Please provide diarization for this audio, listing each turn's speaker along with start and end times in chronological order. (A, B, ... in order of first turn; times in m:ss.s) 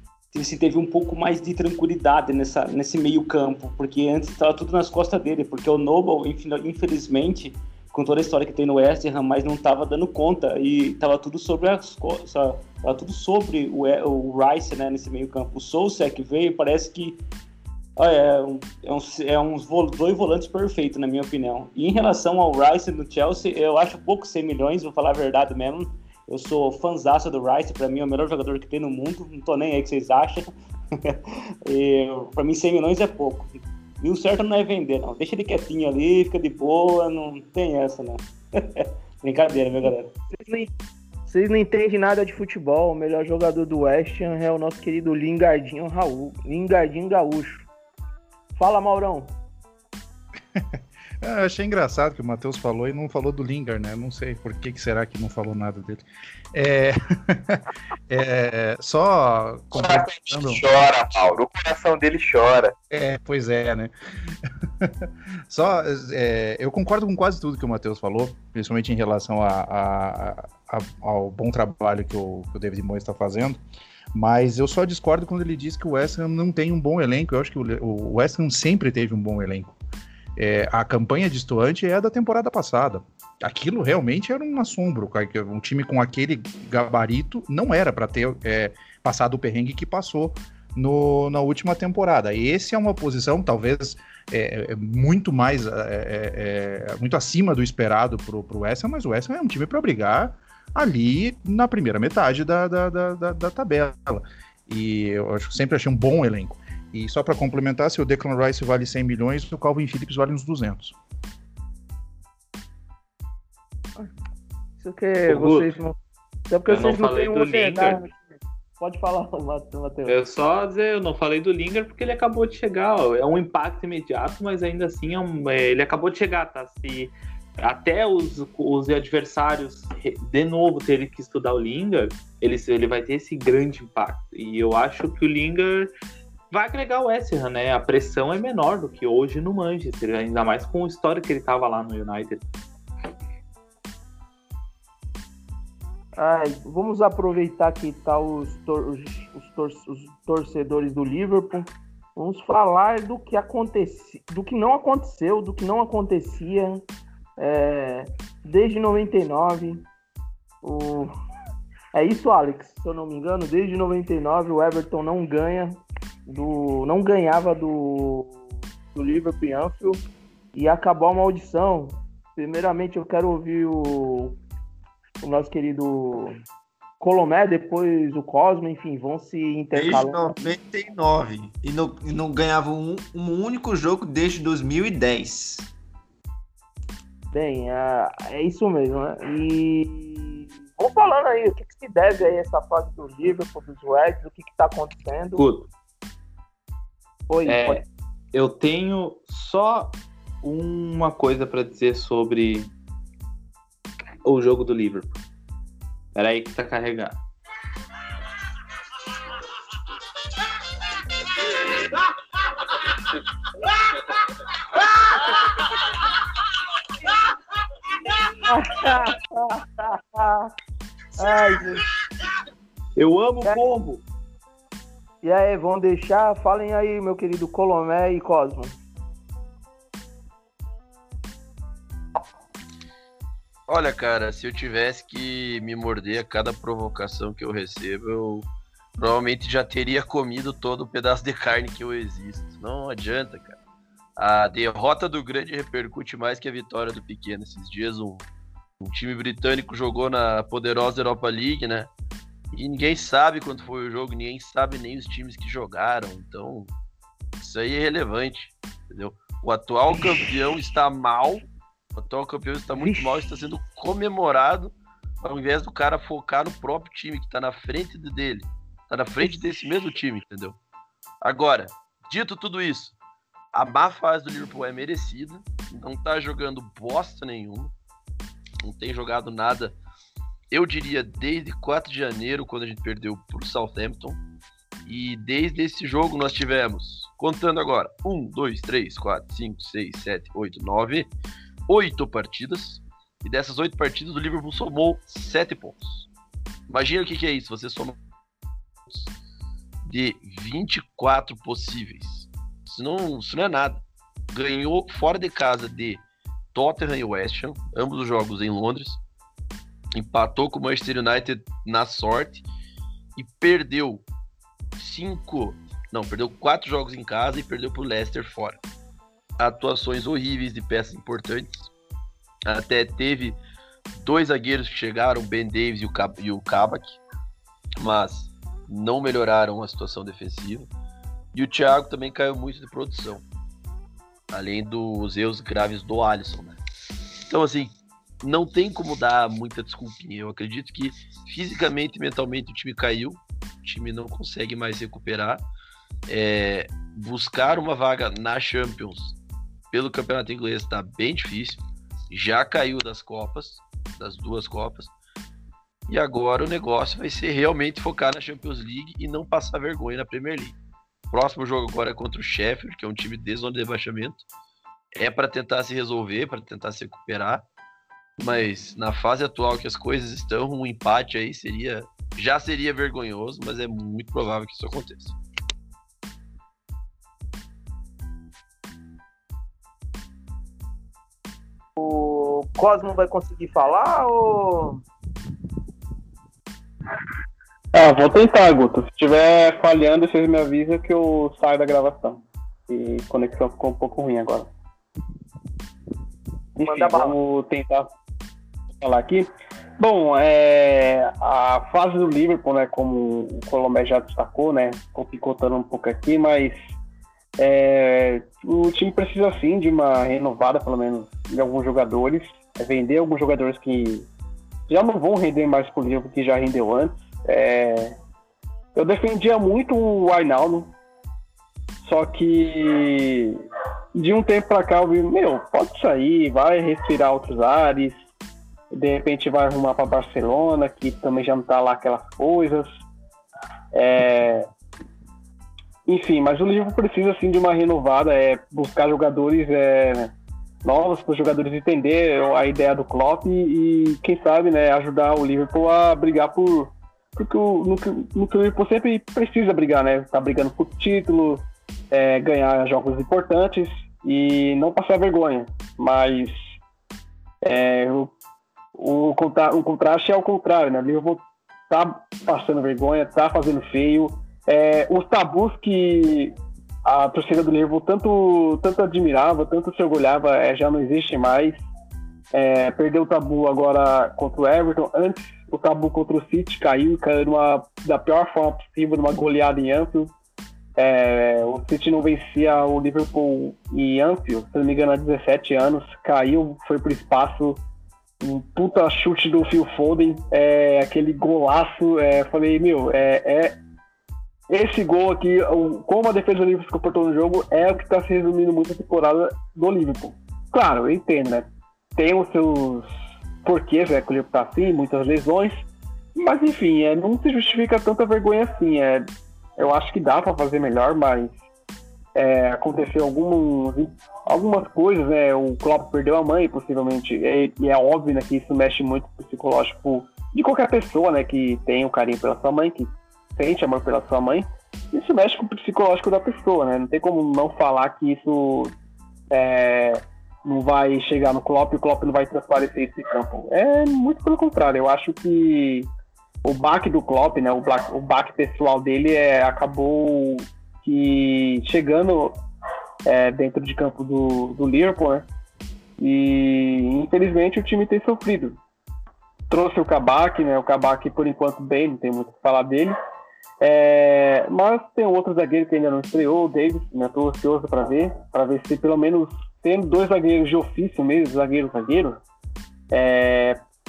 0:00.3-0:17.2 A
0:18.0-0:40.1 A
0:40.3-0:40.7 B
0:41.3-0:47.7 B
0:48.5-0:49.3 B
0:51.2-1:00.6 C
0:59.8-1:02.7 D
1:02.9-1:03.9 C
1:04.8-1:13.6 C
1:14.1-1:19.8 C
1:20.4-1:51.0 C
1:54.8-1:56.0 B
1:55.3-1:55.8 E
1:56.5-1:58.2 B
1:56.7-1:58.0 E
1:58.8-2:00.1 B
2:00.1-2:15.9 E
2:16.5-2:22.4 E
2:26.2-2:36.8 B
2:37.4-2:39.8 B
2:40.6-2:41.1 B
2:41.9-2:48.4 B
2:48.9-2:50.0 B
2:50.5-2:54.4 B
2:55.2-2:56.3 B
2:57.0-3:00.4 B
2:59.7-3:05.7 F
3:07.3-3:15.4 B
3:15.4-3:15.7 E
3:17.3-3:17.8 B
3:17.4-3:22.7 E
3:24.2-3:25.2 E
3:26.1-3:27.2 E
3:38.2-3:40.5 B
3:41.2-3:41.8 B
3:41.2-3:41.7 E
3:43.0-3:44.0 E
3:45.2-3:48.7 B
3:53.7-3:58.5 G
3:59.0-4:03.6 G
4:04.2-4:08.2 G
4:08.8-4:11.9 G
4:12.5-4:16.7 G
4:17.4-4:21.4 G
4:19.9-4:20.4 B
4:21.9-4:30.6 G
4:22.7-4:23.3 B
4:29.2-4:29.9 B
4:31.2-4:32.9 G
4:33.5-4:37.7 G
4:38.6-4:39.7 G
4:40.5-4:44.2 G
4:44.8-4:51.1 G
4:51.7-4:56.1 G
4:56.7-4:58.0 G
4:59.8-5:03.8 G
5:04.3-5:06.0 G
5:06.5-5:09.0 G
5:09.9-5:12.4 G
5:13.2-5:14.0 G
5:14.8-5:18.6 G
5:19.4-5:21.7 G
5:22.4-5:23.4 G
5:23.9-5:27.0 G
5:27.8-5:30.7 G
5:31.3-5:33.2 G
5:34.3-5:36.6 G
5:37.3-5:45.4 G
5:46.1-5:49.2 G
5:49.7-5:54.9 G
5:55.9-6:00.6 G
6:01.1-6:04.2 G
6:05.0-6:07.4 G
6:08.2-6:15.2 G
6:21.8-6:24.8 B
6:27.7-6:34.5 H
6:36.6-6:37.9 H
6:36.6-6:37.2 B
6:38.8-6:39.3 H
6:39.8-6:46.6 H
6:47.4-6:54.1 H
6:54.7-6:58.0 H
6:58.7-7:00.7 H
7:01.8-7:03.4 H
7:04.0-7:08.0 H
7:08.7-7:12.7 H
7:13.7-7:14.5 H
7:15.8-7:36.3 H
7:37.4-7:38.1 H
7:38.7-7:46.3 H
7:46.8-7:51.6 H
7:52.3-8:00.1 H
8:00.8-8:07.6 H
8:08.2-8:13.6 H
8:14.5-8:22.9 H
8:23.4-8:25.6 H
8:26.1-8:29.1 H
8:29.6-8:31.4 H
8:32.2-8:48.7 H
8:49.3-8:55.9 H
8:56.4-9:02.4 H
9:03.0-9:05.3 H
9:06.0-9:08.6 H
9:09.5-9:13.0 H
9:13.6-9:22.2 H
9:22.9-9:23.6 H